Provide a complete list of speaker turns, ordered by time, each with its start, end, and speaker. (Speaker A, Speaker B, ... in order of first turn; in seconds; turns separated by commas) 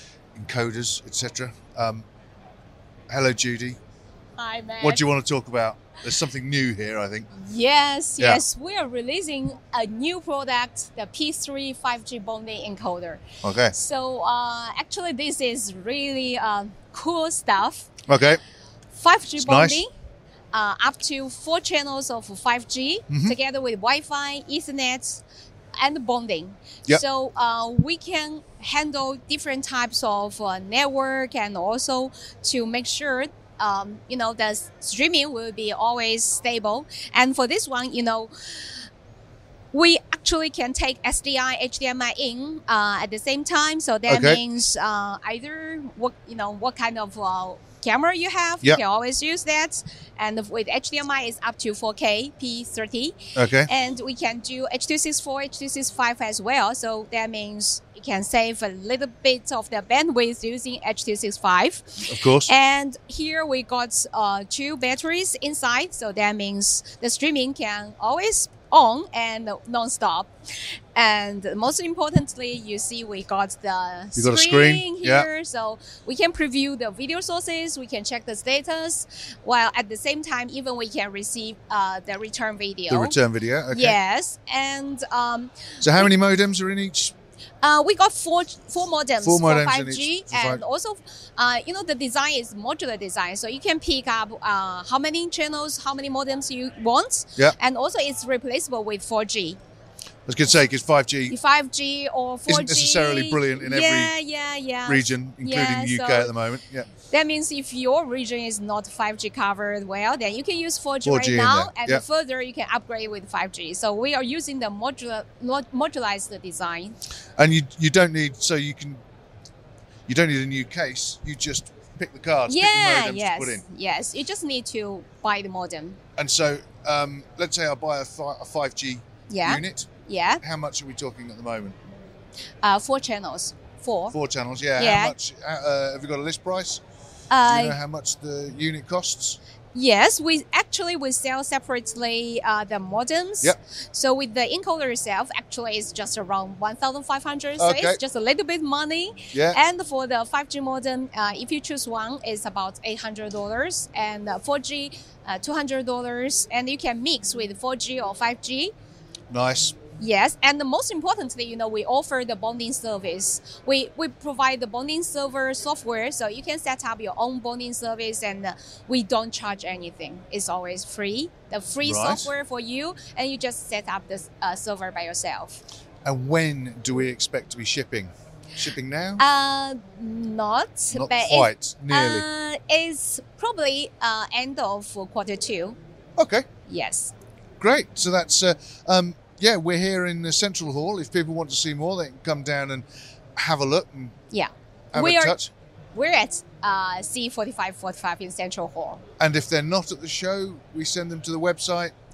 Speaker A: 0.4-2.0, Speaker A: 3.1-3.8, Speaker B: 4.4-5.0, Speaker A: 4.8-7.3, Speaker B: 7.3-17.9, Speaker A: 13.4-13.7, Speaker A: 18.1-18.4, Speaker B: 18.9-19.9, Speaker A: 19.4-19.8, Speaker B: 20.5-25.2, Speaker A: 23.1-23.3, Speaker B: 25.8-38.8, Speaker B: 39.7-70.3, Speaker A: 44.1-44.4, Speaker A: 53.4-53.7, Speaker A: 62.1-62.5, Speaker B: 71.0-83.2, Speaker A: 74.2-75.3, Speaker A: 82.9-84.0, Speaker B: 83.7-86.1, Speaker A: 85.8-87.1, Speaker B: 87.6-99.6, Speaker A: 89.2-90.6, Speaker A: 100.3-101.4, Speaker B: 101.3-106.3, Speaker A: 102.5-104.1, Speaker A: 104.9-106.9, Speaker B: 107.1-117.0, Speaker A: 111.0-112.0, Speaker A: 117.4-119.0, Speaker A: 120.1-123.6, Speaker B: 122.5-126.0, Speaker A: 126.2-129.9, Speaker B: 129.3-130.4, Speaker A: 130.4-131.8, Speaker B: 132.6-134.1, Speaker A: 134.1-136.8, Speaker B: 134.8-135.1, Speaker B: 137.3-137.8, Speaker A: 137.4-139.4, Speaker B: 139.7-158.7, Speaker A: 147.6-148.0, Speaker A: 149.3-149.6, Speaker A: 159.3-159.8, Speaker B: 160.0-175.6, Speaker A: 171.8-172.3, Speaker A: 176.0-179.2, Speaker B: 179.2-185.8, Speaker A: 180.9-182.2, Speaker A: 186.2-186.5, Speaker B: 186.7-187.1, Speaker A: 187.6-194.1, Speaker B: 194.3-195.3, Speaker A: 194.9-195.5, Speaker B: 195.9-199.0, Speaker A: 199.2-201.9